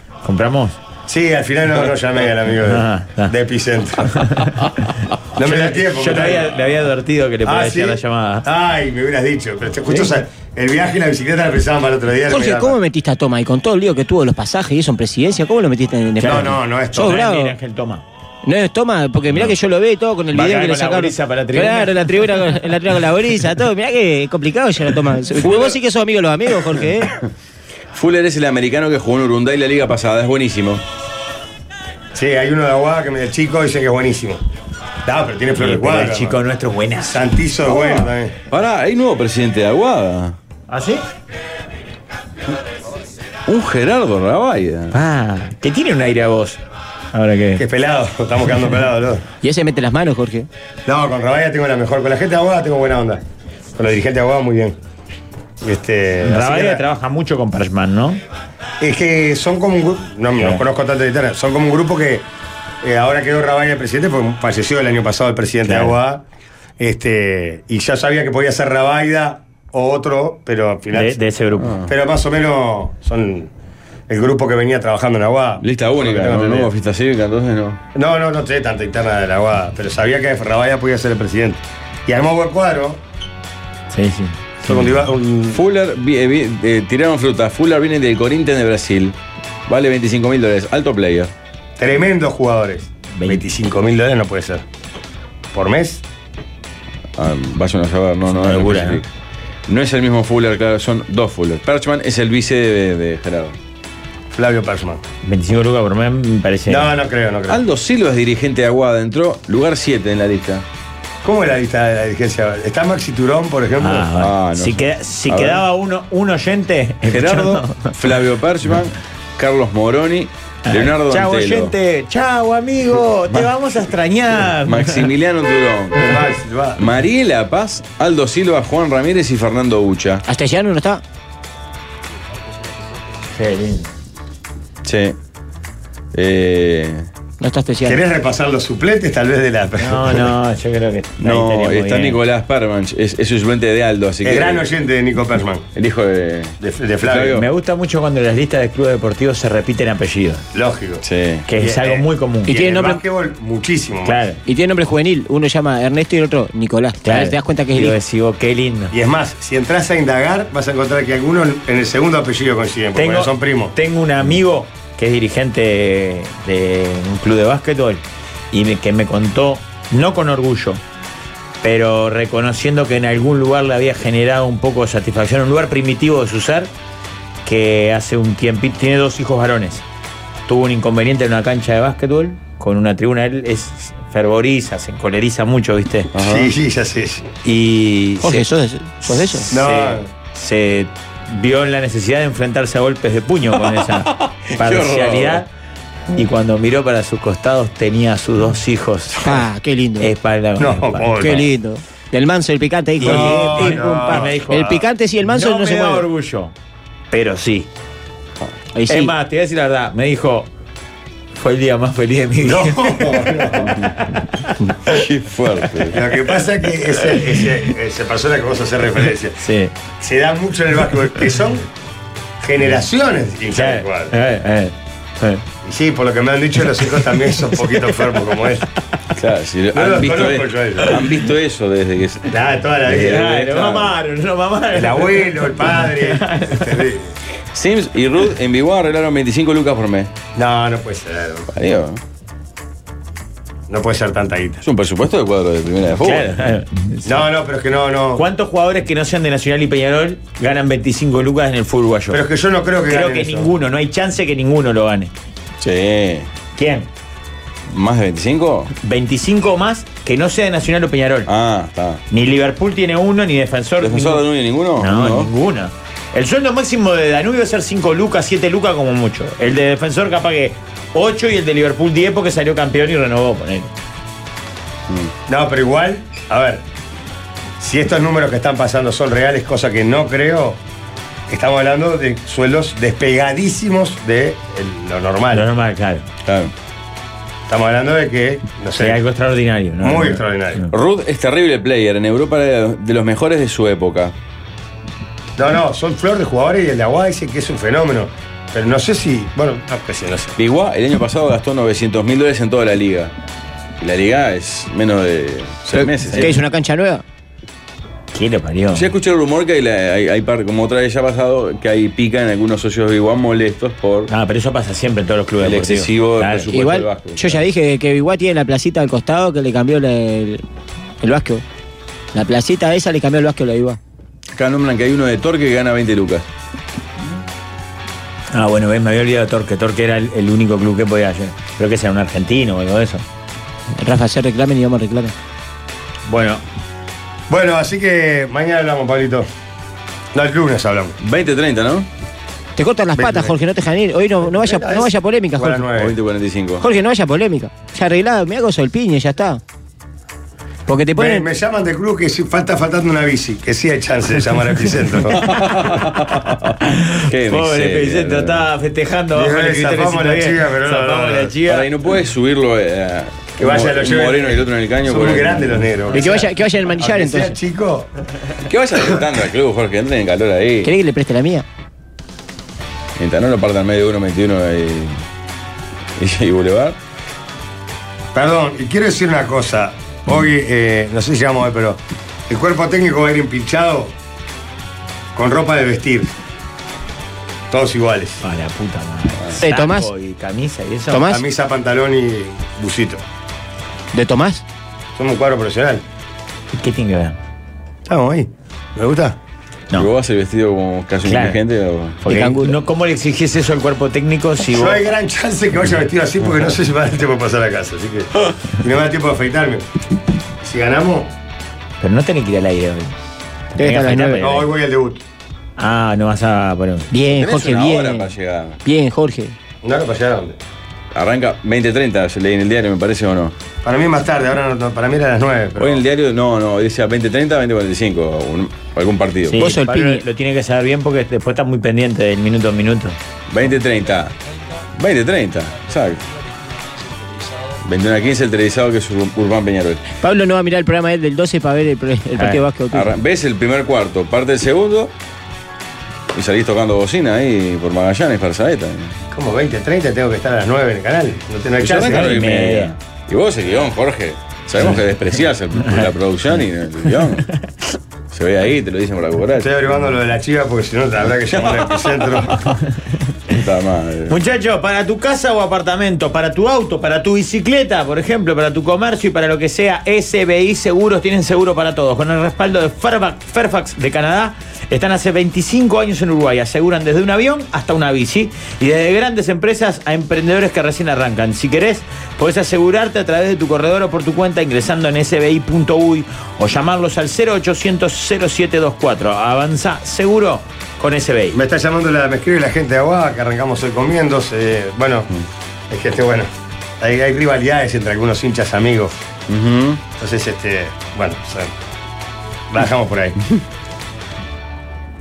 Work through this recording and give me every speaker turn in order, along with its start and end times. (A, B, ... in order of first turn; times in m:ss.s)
0:00.2-0:00.8 A
0:01.1-0:04.1 B
0:02.6-0:03.3 A
0:04.2-0:04.5 A
0:05.4-0:06.5 B
0:05.4-0:08.5 A
0:07.4-0:12.8 B
0:12.3-0:17.6 C
0:16.2-0:18.0 A
0:16.2-0:17.2 B
0:18.4-0:27.1 C
0:20.3-0:22.3 A
0:27.9-0:30.8 D
0:32.1-0:34.4 B
0:35.1-0:36.4 B
0:35.6-0:37.2 A
0:37.1-0:38.3 B
0:37.7-0:40.4 D
0:40.7-0:41.0 A
0:43.5-0:45.0 D
0:44.9-0:46.6 A
0:47.1-0:47.6 A
0:47.6-0:49.2 B
0:49.4-0:50.5 C
0:50.9-0:53.2 B
0:53.8-0:54.8 B
0:55.6-0:56.8 B
0:56.2-0:58.2 A
0:58.8-1:02.3 B
1:02.8-1:06.2 B
1:05.7-1:06.0 A
1:06.8-1:11.2 B
1:10.9-1:11.8 A
1:11.6-1:11.9 D
1:11.8-1:13.5 B
1:14.1-1:16.7 B
1:15.6-1:17.8 D
1:18.0-1:23.0 B
1:23.9-1:24.9 A
1:24.6-1:25.6 B
1:25.5-1:31.3 D
1:31.8-1:34.6 B
1:33.1-1:33.4 A
1:35.5-1:36.0 B
1:37.2-1:39.1 D
1:38.3-1:39.0 A
1:39.7-1:43.6 D
1:44.3-1:45.0 B
1:45.2-1:46.9 A
1:46.7-1:47.6 B
1:47.5-1:50.6 D
1:51.2-1:54.1 B
1:53.8-1:57.9 A
1:54.1-1:55.6 D
1:57.0-2:01.7 D
2:00.6-2:05.1 A
2:03.3-2:03.9 D
2:04.5-2:06.2 D
2:06.0-2:06.9 B
2:06.8-2:10.2 D
2:10.3-2:11.0 C
2:13.3-2:13.9 A
2:14.8-2:15.2 D
2:16.1-2:17.1 D
2:17.4-2:18.0 C
2:17.8-2:20.3 B
2:19.8-2:22.2 A
2:21.2-2:24.7 D
2:24.2-2:25.7 B
2:25.8-2:27.5 D
2:26.6-2:27.4 B
2:27.3-2:30.4 A
2:30.5-2:31.0 B
2:31.0-2:31.5 D
2:31.5-2:32.6 A
2:31.6-2:34.3 B
2:32.5-2:33.0 C
2:34.0-2:34.4 A
2:34.4-2:38.0 C
2:37.0-2:38.9 A
2:38.9-2:43.7 B
2:43.0-2:50.8 A
2:51.6-2:56.7 A
2:57.4-2:59.8 A
3:00.5-3:06.1 A
3:06.1-3:06.5 D
3:06.2-3:07.3 B
3:07.4-3:08.5 A
3:08.2-3:09.5 C
3:09.0-3:15.5 A
3:09.5-3:10.1 B
3:13.9-3:15.4 D
3:16.1-3:19.4 A
3:19.2-3:20.1 C
3:20.0-3:21.4 A
3:20.6-3:21.5 B
3:21.2-3:26.1 C
3:23.0-3:26.5 A
3:23.0-3:24.4 B
3:27.1-3:27.7 A
3:28.8-3:29.1 C
3:28.9-3:30.5 A
3:31.4-3:32.9 A
3:32.4-3:33.8 B
3:33.0-3:34.1 D
3:34.8-3:36.1 D
3:35.9-3:39.4 B
3:39.4-3:39.7 A
3:40.0-3:41.7 B
3:42.4-3:44.1 B
3:43.5-3:45.4 A
3:45.6-3:48.6 B
3:49.2-3:52.3 D
3:49.7-3:51.0 B
3:52.3-3:53.3 B
3:52.9-3:53.9 D
3:52.9-3:56.8 A
3:54.7-3:57.1 B
3:57.5-4:00.1 D
4:00.4-4:01.5 B
4:01.5-4:02.0 D
4:03.7-4:04.6 B
4:04.6-4:06.4 D
4:06.0-4:07.2 A
4:07.0-4:08.2 B
4:08.2-4:12.2 A
4:12.1-4:13.5 B
4:12.9-4:15.1 A
4:15.6-4:16.3 D
4:16.6-4:16.9 A
4:17.7-4:18.7 D
4:18.8-4:21.3 A
4:21.3-4:22.0 D
4:22.1-4:24.2 A
4:23.8-4:25.3 D
4:24.8-4:33.7 A
4:35.3-4:36.6 B
4:37.6-4:40.6 B
4:41.3-4:45.5 B
4:45.3-4:46.1 A
4:46.2-4:46.5 D
4:47.5-4:49.0 B
4:48.8-4:50.7 A
4:49.8-4:50.6 B
4:50.7-4:54.2 D
4:55.4-5:00.4 B
5:00.4-5:03.1 D
5:03.8-5:06.4 D
5:05.7-5:07.0 C
5:08.1-5:08.9 A
5:08.7-5:14.1 D
5:14.1-5:16.5 A
5:15.4-5:17.4 D
5:16.5-5:20.4 C
5:21.0-5:21.4 C
5:22.1-5:23.8 C
5:24.3-5:26.3 D
5:28.3-5:33.0 A
5:33.8-5:35.1 C
5:36.1-5:36.4 A
5:37.3-5:39.3 B
5:40.1-5:41.0 B
5:41.0-5:41.9 D
5:42.6-5:45.6 C
5:43.0-5:43.4 B
5:44.2-5:46.0 B
5:45.7-5:46.6 D
5:46.6-5:49.4 C
5:50.7-5:51.3 C
5:51.0-5:55.3 B
5:55.1-5:56.6 D
5:56.6-6:01.7 A
5:57.1-5:58.4 D
5:59.1-6:01.4 B
6:01.4-6:05.6 D
6:03.4-6:07.9 B
6:05.9-6:07.4 C
6:08.4-6:10.7 D
6:10.6-6:11.4 C
6:13.0-6:15.0 D
6:16.0-6:16.8 D
6:18.1-6:23.9 B
6:25.2-6:26.1 B
6:27.5-6:28.2 B
6:28.2-6:31.1 A
6:29.4-6:29.9 C
6:30.9-6:31.2 C
6:31.1-6:33.0 B
6:33.9-6:34.4 C
6:35.0-6:35.8 B
6:36.5-6:37.2 A
6:37.9-6:39.2 B
6:39.8-6:42.0 D
6:41.0-6:41.4 A
6:42.0-6:44.8 A
6:42.1-6:42.6 C
6:44.4-6:49.7 B
6:50.4-6:51.1 B
6:51.8-6:53.0 A
6:53.5-6:54.5 A
6:53.6-6:54.3 C
6:54.2-6:55.0 B
6:55.6-6:56.9 A
6:56.9-6:58.1 C
6:57.1-6:58.6 D
6:58.6-6:59.4 C
6:59.6-7:00.4 B
7:00.9-7:03.4 D
7:03.6-7:05.8 B
7:05.6-7:09.5 D
7:09.3-7:13.0 A
7:09.3-7:10.0 C
7:13.3-7:14.1 D
7:14.8-7:16.0 D
7:17.6-7:19.8 D
7:20.0-7:23.0 C
7:22.2-7:22.4 A
7:22.7-7:24.9 D
7:26.1-7:29.0 D
7:29.1-7:32.2 B
7:31.6-7:37.3 D
7:31.8-7:32.7 A
7:38.1-7:39.5 D
7:39.4-7:42.4 B
7:41.3-7:42.5 D
7:43.3-7:44.2 D
7:44.1-8:11.4 A
8:11.3-8:15.1 B
8:15.7-8:16.3 B
8:16.8-8:19.0 B
8:19.3-8:19.8 D
8:20.0-8:21.5 B
8:22.5-8:23.2 B